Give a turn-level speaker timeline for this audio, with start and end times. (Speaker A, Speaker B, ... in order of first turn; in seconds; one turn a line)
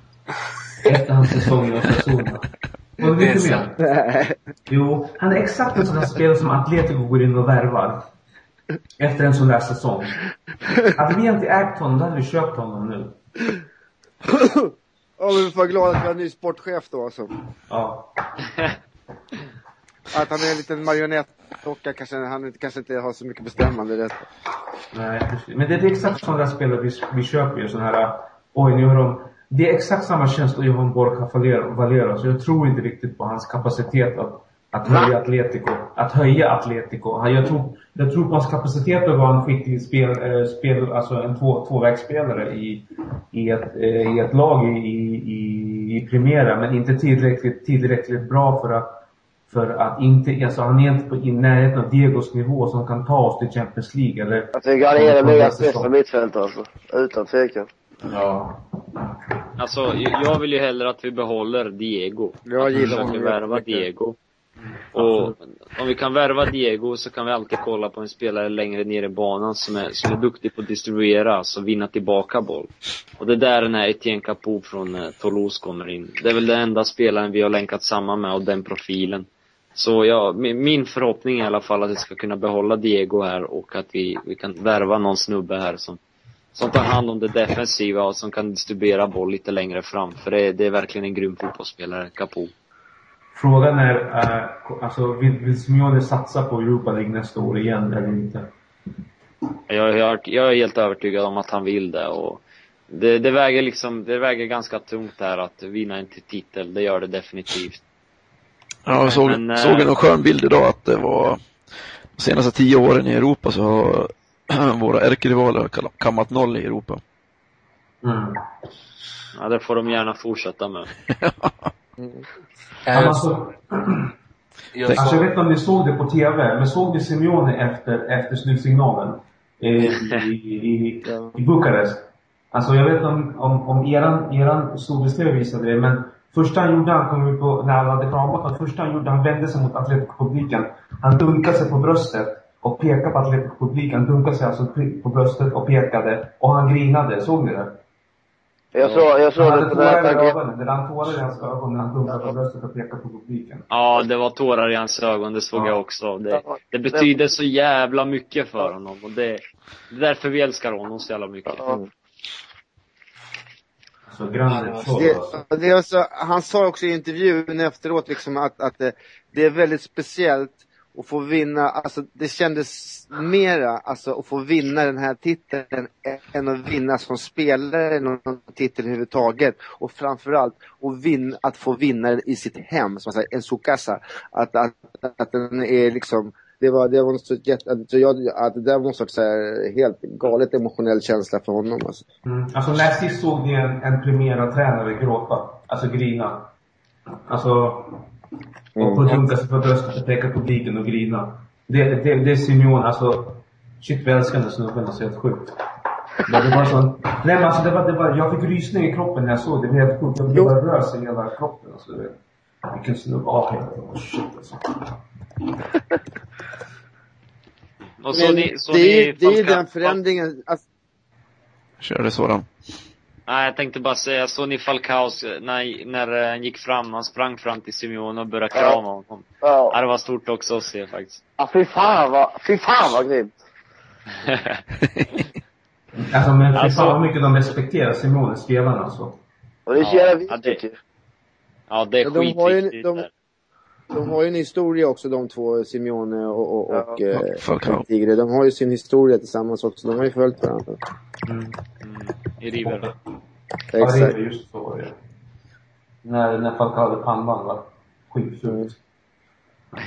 Speaker A: 0.8-2.5
Speaker A: 3.0-3.8
Speaker B: 3.1-3.6
Speaker C: 3.8-4.3
Speaker A: 4.7-8.1
Speaker A: 9.0-10.2
Speaker A: 10.9-13.2
Speaker C: 14.4-17.3
Speaker A: 17.7-18.1
Speaker C: 20.1-24.2
Speaker A: 24.9-55.9
Speaker D: 54.5-57.7
Speaker A: 58.0-59.1
Speaker E: 59.6-64.2
Speaker C: 62.5-63.9
Speaker A: 62.7-63.1
Speaker A: 64.6-65.3
Speaker E: 64.9-86.0
Speaker E: 86.5-92.5
Speaker A: 93.3-98.5
Speaker E: 99.7-107.8
Speaker F: 108.8-111.4
Speaker E: 109.0-109.9
Speaker F: 112.2-117.0
Speaker A: 118.0-118.4
Speaker E: 119.3-120.9
Speaker F: 121.1-121.7
Speaker C: 122.0-122.2
Speaker B: 122.8-123.3
Speaker A: 122.9-124.1
Speaker B: 124.7-125.2
Speaker A: 125.0-147.8
Speaker D: 148.7-150.3
Speaker A: 148.9-153.7
Speaker E: 153.7-161.8
Speaker D: 156.3-157.1
Speaker D: 161.5-161.8
Speaker A: 164.1-165.4
Speaker B: 164.5-164.9
Speaker C: 164.9-192.1
Speaker A: 192.2-196.5
Speaker A: 197.2-198.1
Speaker C: 198.8-199.0
Speaker A: 198.8-205.6
Speaker A: 206.2-215.0
Speaker E: 218.0-220.0
Speaker C: 218.1-220.6
Speaker F: 221.8-222.5
Speaker E: 223.3-231.2
Speaker D: 228.5-228.8
Speaker D: 229.4-229.7
Speaker D: 231.4-233.3
Speaker E: 234.2-234.6
Speaker A: 235.9-239.2
Speaker E: 236.5-237.0
Speaker D: 239.7-240.8
Speaker E: 239.8-240.6
Speaker E: 241.7-243.1
Speaker C: 242.0-243.1
Speaker C: 243.9-250.8
Speaker D: 246.7-247.0
Speaker F: 247.1-247.8
Speaker A: 251.2-251.6
Speaker E: 251.8-252.9
Speaker A: 252.5-252.9
Speaker C: 253.7-254.1
Speaker A: 253.8-254.9
Speaker A: 256.0-258.8